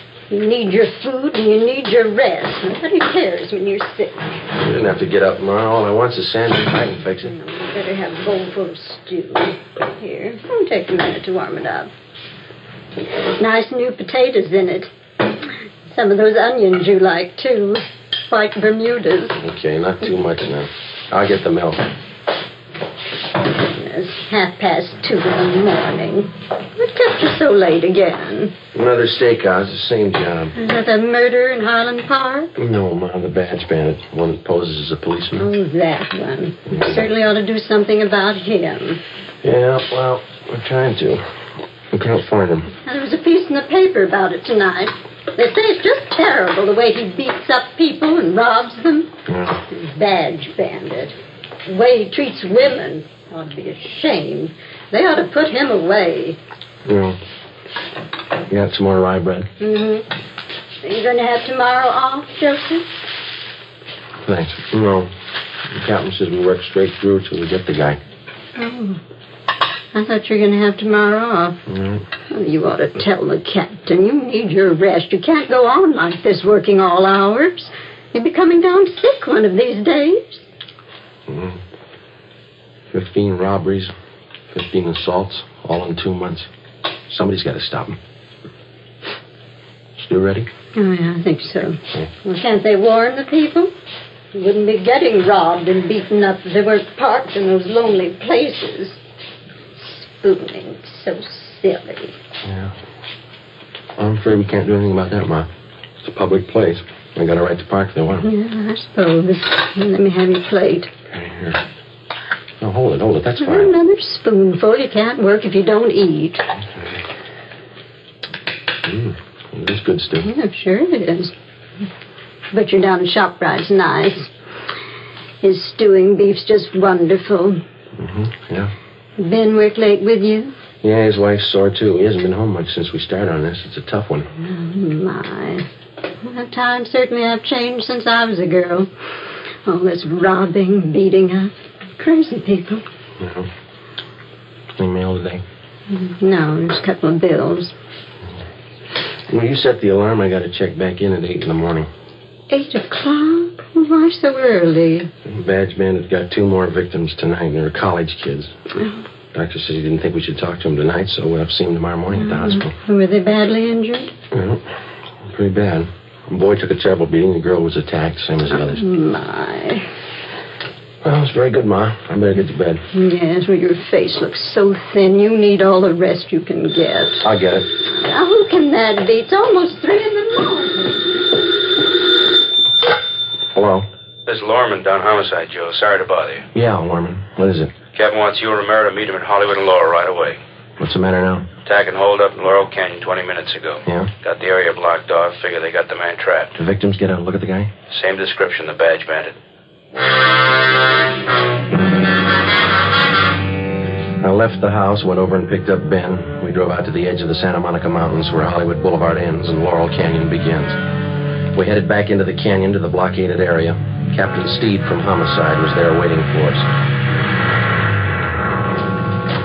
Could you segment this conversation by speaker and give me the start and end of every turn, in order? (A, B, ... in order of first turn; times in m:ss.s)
0:00.3-0:04.3 A
0:04.6-0:07.3 B
0:07.2-0:11.9 A
0:13.4-0:14.9 A
0:15.9-0:19.4 A
0:19.4-0:21.9 B
0:23.4-0:28.5 A
0:28.7-0:30.5 B
0:30.5-0:32.5 A
0:32.6-0:35.5 B
0:35.4-0:39.0 A
0:36.7-0:37.1 B
0:39.4-0:41.2 B
0:41.9-0:42.7 B
0:42.8-0:49.1 A
0:49.3-0:49.6 B
0:49.7-0:56.4 A
0:56.8-0:57.2 B
0:58.5-0:59.5 B
0:59.6-1:00.1 A
1:00.8-1:02.8 A
1:04.2-1:05.1 B
1:05.7-1:08.0 B
1:08.6-1:09.0 A
1:09.9-1:11.6 A
1:11.7-1:12.0 B
1:12.2-1:20.5 A
1:21.3-1:21.6 B
1:22.9-1:23.9 B
1:24.5-1:26.5 B
1:27.1-1:28.0 B
1:30.0-1:30.5 B
1:30.7-1:33.7 A
1:34.3-1:39.0 A
1:39.8-1:42.2 A
1:42.4-1:42.7 B
1:44.0-1:45.5 B
1:46.0-1:48.2 B
1:48.2-1:50.9 A
1:51.1-1:51.6 B
1:52.6-1:53.7 B
1:53.4-1:56.5 A
1:58.8-2:00.3 B
2:00.2-2:01.3 A
2:02.5-2:04.3 A
2:05.4-2:07.6 A
2:08.0-2:08.7 B
2:09.2-2:10.5 A
2:10.8-2:14.3 B
2:14.4-2:15.7 A
2:16.2-2:18.9 A
2:19.6-2:22.8 A
2:23.2-2:23.5 B
2:24.8-2:25.4 B
2:25.9-2:27.7 A
2:29.3-2:31.9 B
2:32.5-2:35.1 A
2:35.2-2:38.5 B
2:38.8-2:39.0 A
2:39.3-2:42.7 B
2:42.1-2:44.1 A
2:44.3-2:44.7 B
2:45.2-2:48.8 B
2:48.5-2:49.9 A
2:51.0-2:52.8 B
2:52.9-2:57.2 A
2:57.2-2:57.7 B
2:57.8-3:01.4 A
3:03.5-3:03.8 B
3:04.2-3:06.5 C
3:06.5-3:07.7 B
3:07.9-3:10.4 C
3:10.8-3:11.5 B
3:11.6-3:16.5 C
3:13.8-3:14.1 B
3:16.6-3:17.7 B
3:17.9-3:19.4 C
3:24.2-3:30.8 B
3:31.5-3:36.6 B